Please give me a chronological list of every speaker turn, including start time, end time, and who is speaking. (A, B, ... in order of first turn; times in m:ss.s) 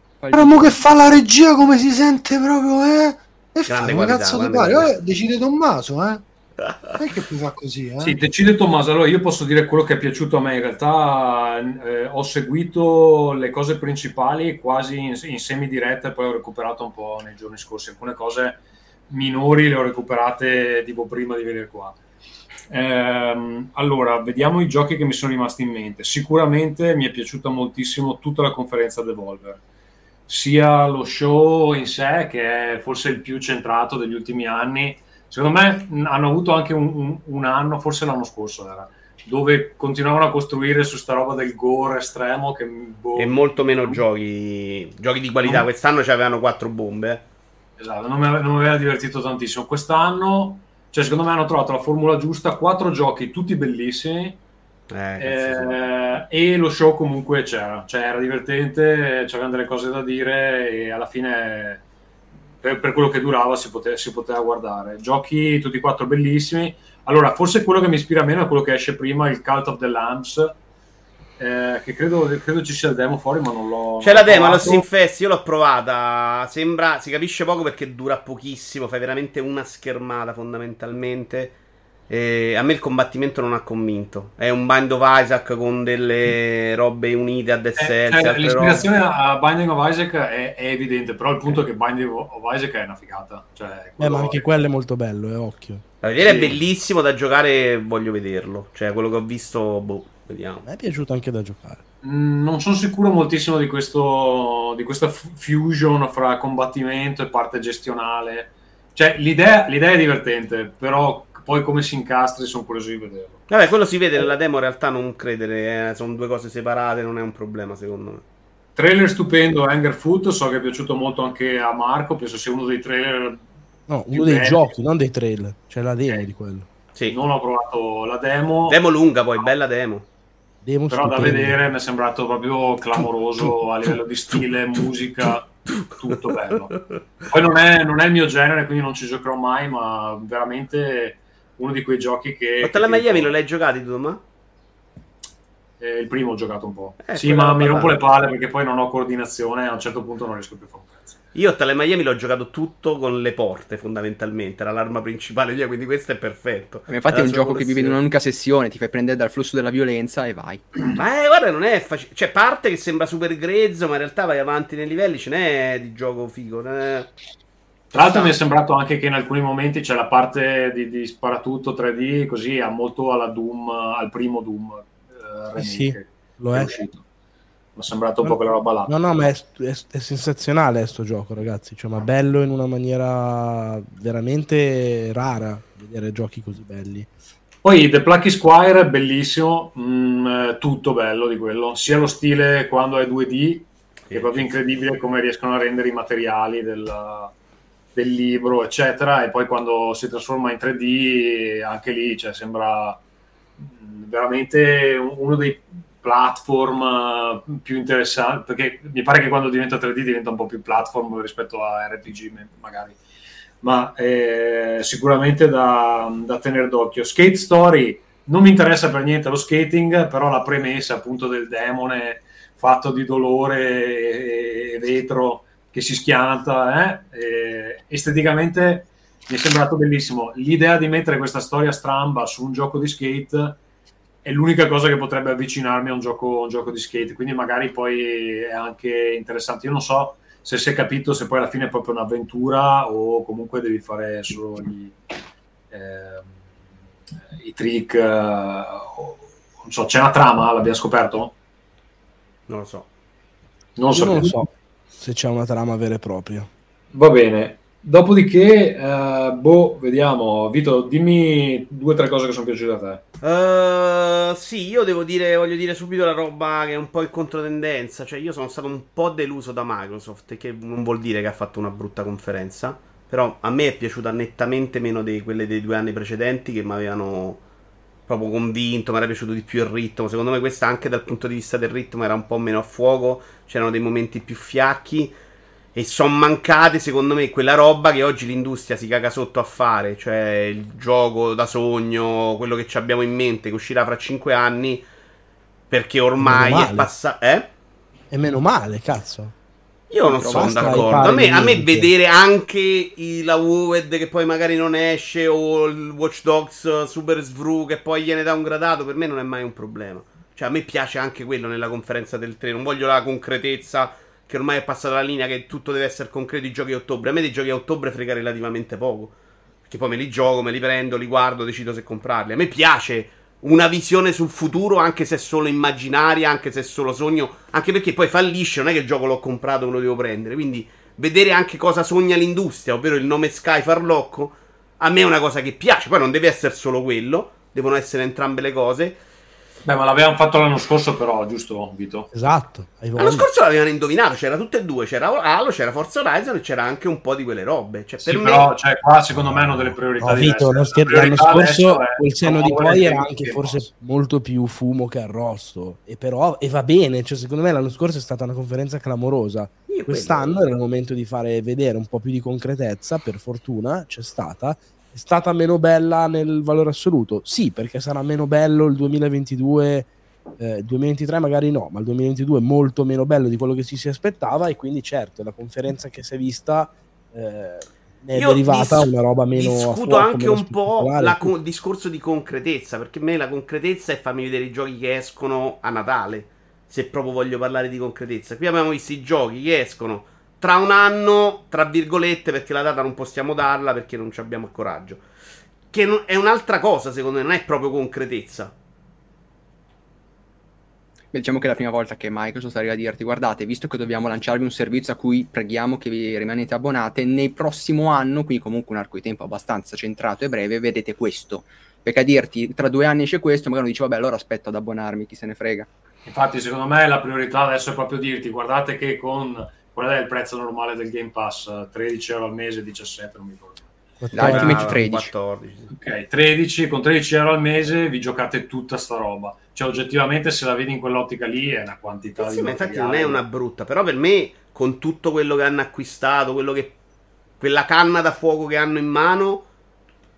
0:00.2-0:00.8 A
0:00.3-0:06.2 B
0:03.7-0:04.9 C
0:06.7-0:06.9 C
0:07.0-0:08.2 B
0:08.0-0:22.0 D
0:22.7-0:29.6 D
0:30.3-0:44.0 D
0:43.2-0:47.2 C
0:47.8-0:54.4 D
0:54.9-0:55.8 C
0:55.2-1:01.8 D
1:02.6-1:10.6 D
1:11.4-1:14.8 D
1:14.0-1:21.6 C
1:22.1-1:28.9 C
1:27.8-1:34.5 D
1:34.0-1:36.6 E
1:36.0-1:40.6 C
1:40.6-1:41.8 E
1:42.0-1:53.4 D
1:53.5-1:58.2 C
1:58.8-2:03.4 D
2:03.9-2:06.7 E
2:04.1-2:04.7 D
2:07.1-2:08.8 D
2:08.7-2:10.0 C
2:10.6-2:11.6 E
2:10.9-2:23.3 D
2:15.7-2:16.0 C
2:22.6-2:24.2 C
2:25.8-2:31.1 D
2:27.0-2:28.1 C
2:31.3-2:38.0 C
2:36.9-2:40.6 A
2:40.9-2:47.1 C
2:47.9-2:57.0 D
2:48.0-2:48.3 C
2:55.6-2:56.8 E
2:57.8-2:59.0 D
2:58.2-3:07.1 E
3:07.6-3:17.3 D
3:14.1-3:14.5 C
3:17.9-3:23.0 D
3:23.6-3:33.0 D
3:33.6-3:53.6 D
3:54.2-4:05.0 D
4:05.7-4:06.4 D
4:07.4-4:11.3 D
4:12.5-4:12.9 C
4:13.8-4:14.4 D
4:13.9-4:16.5 E
4:16.9-4:23.0 D
4:23.2-4:37.4 C
4:38.1-4:45.2 C
4:45.7-4:54.8 C
4:55.7-4:57.5 C
4:56.2-4:56.9 E
4:58.1-4:59.3 E
4:59.9-5:19.2 C
5:00.1-5:01.2 A
5:00.2-5:01.9 E
5:19.7-5:39.0 C
5:39.6-5:42.1 D
5:42.1-5:43.3 E
5:43.0-5:48.5 C
5:48.0-5:53.7 D
5:50.0-6:21.3 E
5:59.7-6:00.4 C
6:18.2-6:35.0 C
6:35.7-6:38.5 C
6:41.1-6:55.7 A
6:56.0-7:03.7 D
7:04.0-7:04.8 E
7:04.1-7:05.7 C
7:04.1-7:05.1 A
7:05.7-7:13.2 D
7:12.2-7:16.8 C
7:17.4-7:19.5 C